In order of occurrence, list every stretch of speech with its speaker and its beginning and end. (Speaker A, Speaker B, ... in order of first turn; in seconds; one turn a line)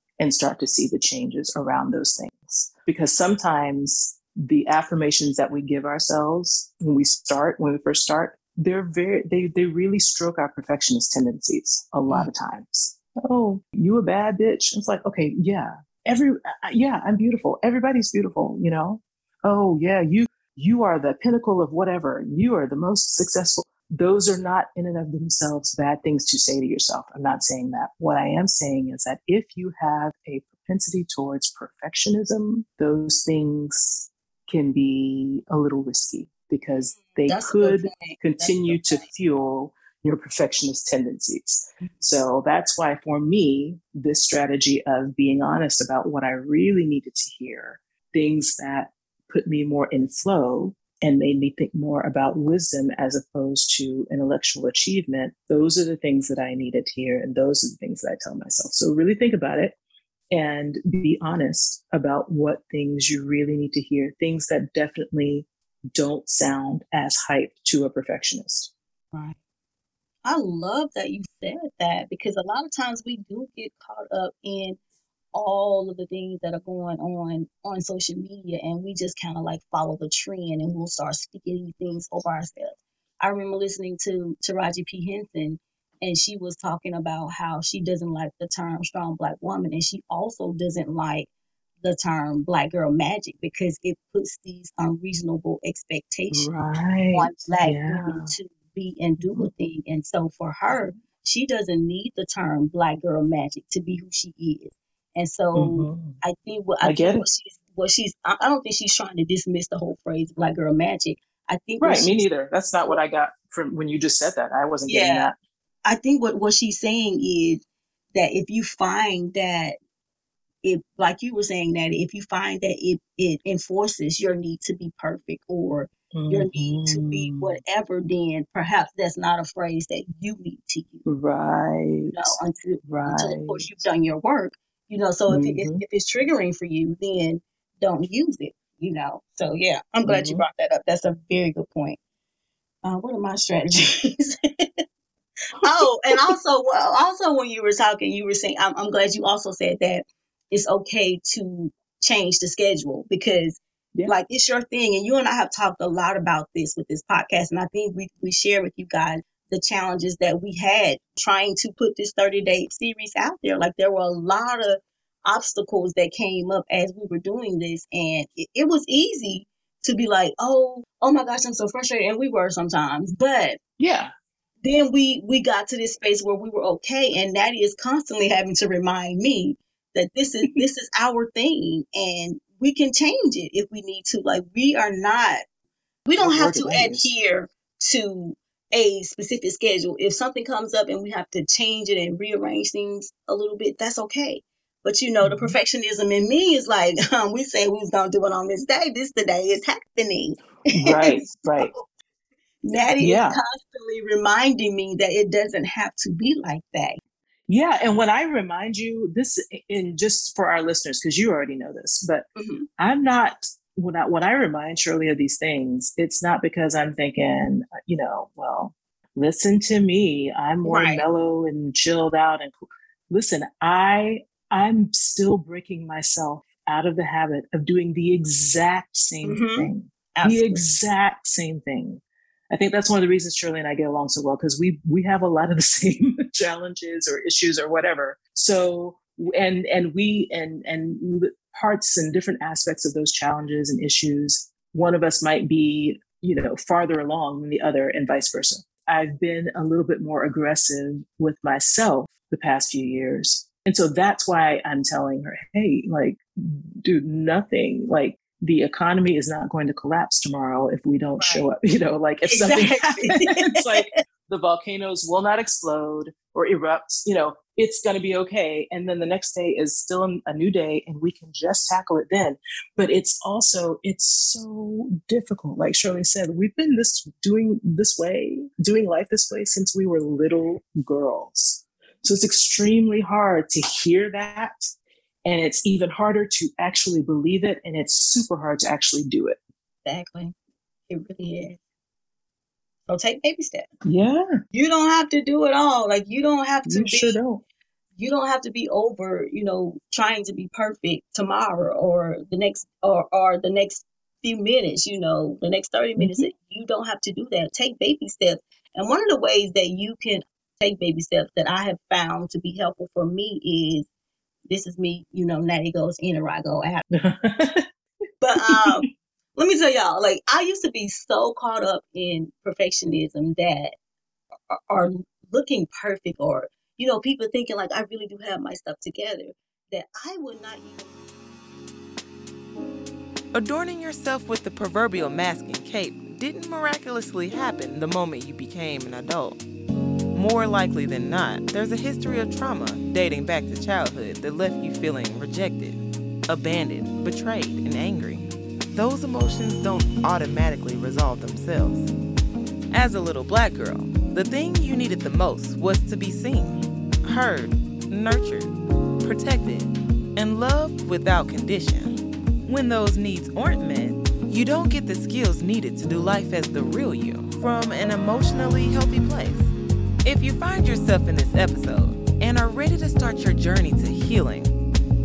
Speaker A: 0.2-59.8
Speaker B: 37.2-39.0
Speaker B: 41.8-42.1
Speaker A: 60.3-68.7
Speaker B: 69.1-69.4
Speaker B: 70.2-74.8
Speaker B: 75.3-91.3
Speaker B: 91.8-96.5
Speaker A: 96.3-98.3
Speaker B: 97.1-112.2
Speaker A: 99.2-99.5
Speaker A: 105.5-106.2
Speaker A: 106.8-107.2
Speaker A: 111.8-115.3
Speaker B: 114.9-115.3
Speaker B: 115.8-119.8
Speaker B: 120.6-131.0
Speaker A: 126.1-127.6
Speaker A: 131.0-133.8
Speaker B: 132.1-142.0
Speaker A: 135.3-135.8
Speaker A: 140.0-140.4
Speaker B: 142.8-144.7
Speaker B: 145.6-173.6
Speaker A: 145.6-146.3
Speaker A: 173.8-174.1
Speaker B: 174.6-185.4
Speaker B: 186.0-201.8
Speaker A: 186.2-187.1
Speaker A: 195.2-195.6
Speaker A: 200.7-201.7
Speaker B: 202.6-207.0
Speaker A: 203.0-203.4
Speaker A: 207.5-212.2
Speaker B: 212.3-212.7
Speaker A: 212.8-222.5
Speaker B: 220.6-221.0
Speaker A: 223.1-284.6
Speaker B: 229.2-230.7
Speaker B: 261.2-261.5
Speaker B: 262.2-263.9
Speaker A: 285.2-289.4
Speaker B: 289.8-290.3
Speaker B: 290.9-291.6
Speaker B: 292.9-293.7
Speaker A: 293.8-294.3
Speaker B: 294.5-297.2
Speaker A: 296.6-297.4
Speaker B: 297.9-313.9
Speaker A: 306.0-306.3
Speaker B: 314.5-316.9
Speaker A: 316.9-317.6
Speaker B: 318.2-323.7
Speaker A: 318.4-318.8
Speaker B: 324.5-330.9
Speaker C: 333.3-339.4
Speaker C: 340.1-351.9
Speaker C: 352.7-369.5
Speaker C: 370.0-374.5